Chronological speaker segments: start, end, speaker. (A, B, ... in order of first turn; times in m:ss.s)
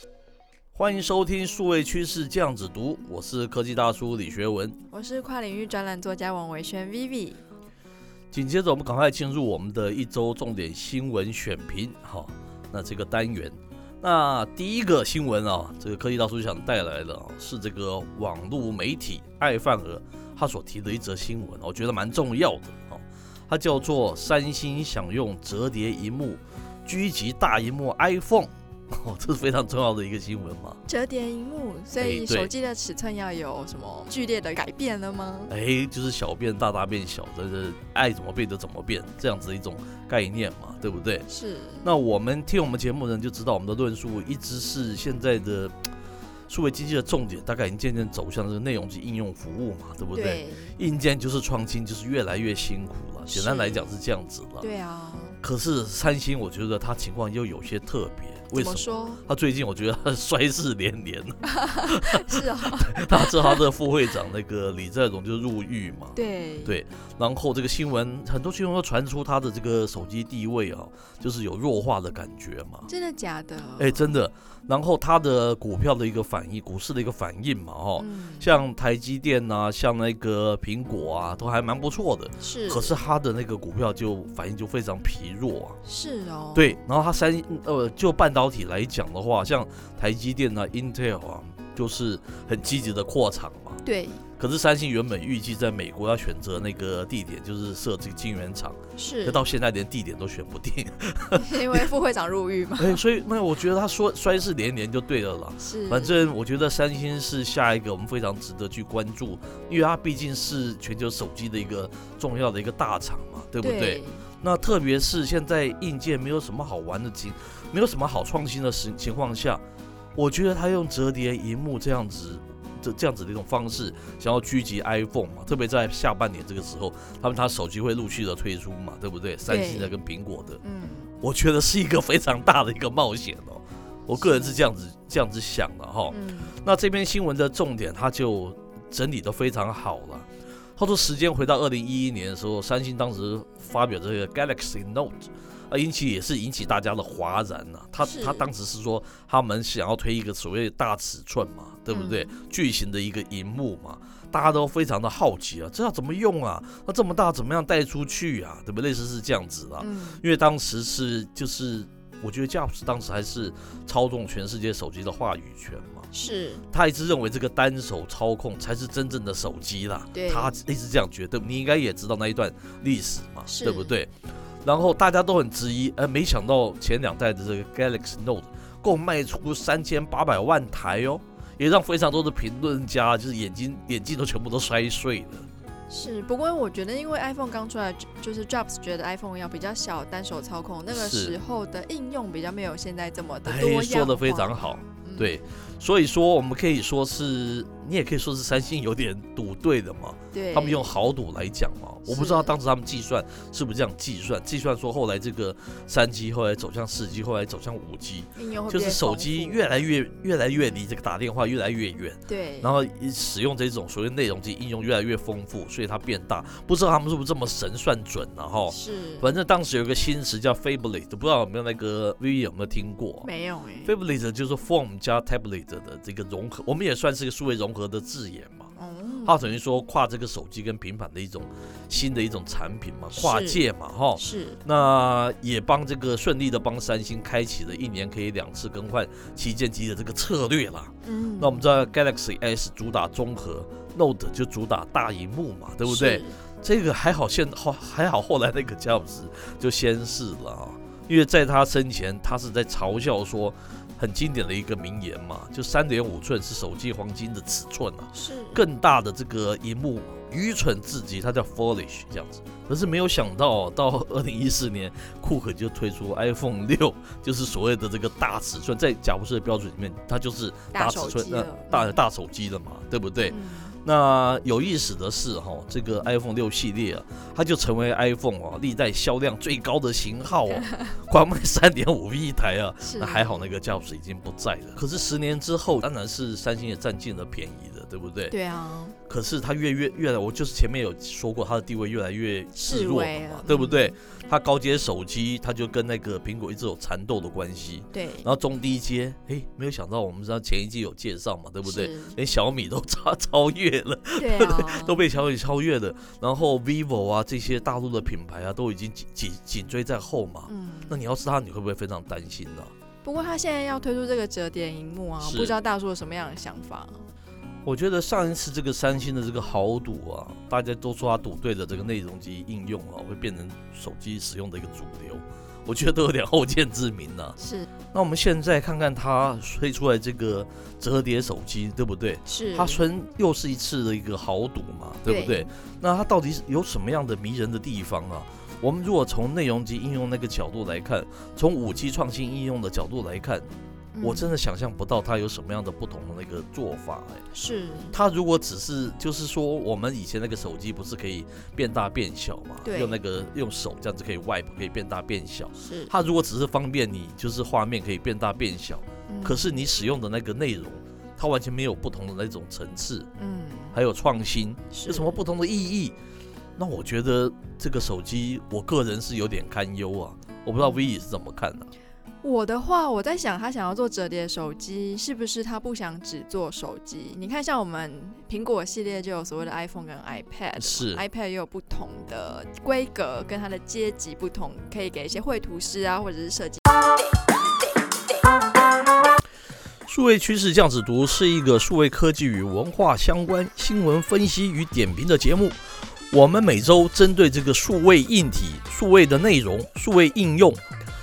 0:00.7-0:04.8 A
0:04.9-0:07.4 B
0:08.3-0:30.8 A
0:30.8-0:35.5 B
0:32.0-0:32.5 A
0:35.5-0:41.2 A
0:41.3-0:41.8 B
0:41.8-0:45.8 A
0:46.5-0:54.7 A
0:50.1-0:50.7 B
0:53.3-0:53.8 B
0:54.6-0:55.4 B
0:55.4-1:12.9 A
0:58.5-0:59.2 B
1:01.4-1:03.6 B
1:06.1-1:06.8 B
1:12.9-1:14.0 B
1:13.8-1:25.8 A
1:18.0-1:18.5 B
1:22.4-1:22.9 B
1:25.8-1:26.7 B
1:26.5-1:33.8 A
1:33.8-1:34.2 B
1:34.4-1:41.8 A
1:39.0-1:39.4 B
1:41.4-1:43.0 B
1:42.8-1:59.6 A
1:45.6-1:46.1 B
1:53.6-1:54.2 B
2:00.2-2:10.6 A
2:09.5-2:09.9 B
2:10.6-2:11.1 B
2:11.2-2:46.1 A
2:14.1-2:14.5 B
2:16.1-2:16.6 B
2:28.0-2:28.4 B
2:31.9-2:32.3 B
2:39.8-2:40.2 B
2:46.1-2:46.6 B
2:46.7-2:54.1 A
2:50.1-2:50.5 B
2:53.5-2:53.9 B
2:54.6-3:05.5 A
3:05.9-3:15.3 B
3:10.9-3:11.3 A
3:13.4-3:43.3 A
3:20.3-3:20.9 B
3:22.0-3:22.5 B
3:28.4-3:29.6 B
3:32.3-3:32.7 B
3:38.7-3:39.3 B
3:43.2-3:43.9 B
3:43.8-3:48.7 A
3:48.8-3:49.5 B
3:49.2-4:48.3 A
3:53.1-3:53.6 B
3:54.2-3:54.6 B
4:01.0-4:01.6 B
4:05.8-4:06.4 B
4:18.1-4:18.6 B
4:30.7-4:32.0 B
4:33.3-4:33.7 B
4:40.5-4:40.8 B
4:42.8-4:43.5 B
4:48.3-4:49.0 B
4:49.1-5:12.7 A
4:52.6-4:53.9 B
4:57.9-4:58.3 B
5:01.6-5:02.2 B
5:04.2-5:05.0 B
5:10.5-5:11.0 B
5:13.0-5:17.0 B
5:15.2-5:15.5 A
5:17.6-5:27.4 A
5:27.4-5:27.7 B
5:27.9-5:43.5 A
5:32.2-5:32.8 B
5:35.0-5:35.5 B
5:43.9-5:44.3 B
5:44.0-5:47.2 A
5:47.3-5:47.9 B
5:47.9-6:03.1 A
5:52.6-5:53.0 B
5:55.6-5:55.9 B
5:59.1-5:59.5 B
6:03.2-6:03.8 B
6:03.7-6:05.9 A
6:04.7-6:05.2 B
6:06.6-6:11.7 A
6:10.6-6:10.9 B
6:12.2-6:26.6 B
6:20.6-6:21.0 A
6:29.9-6:35.6 A
6:36.1-6:40.6 A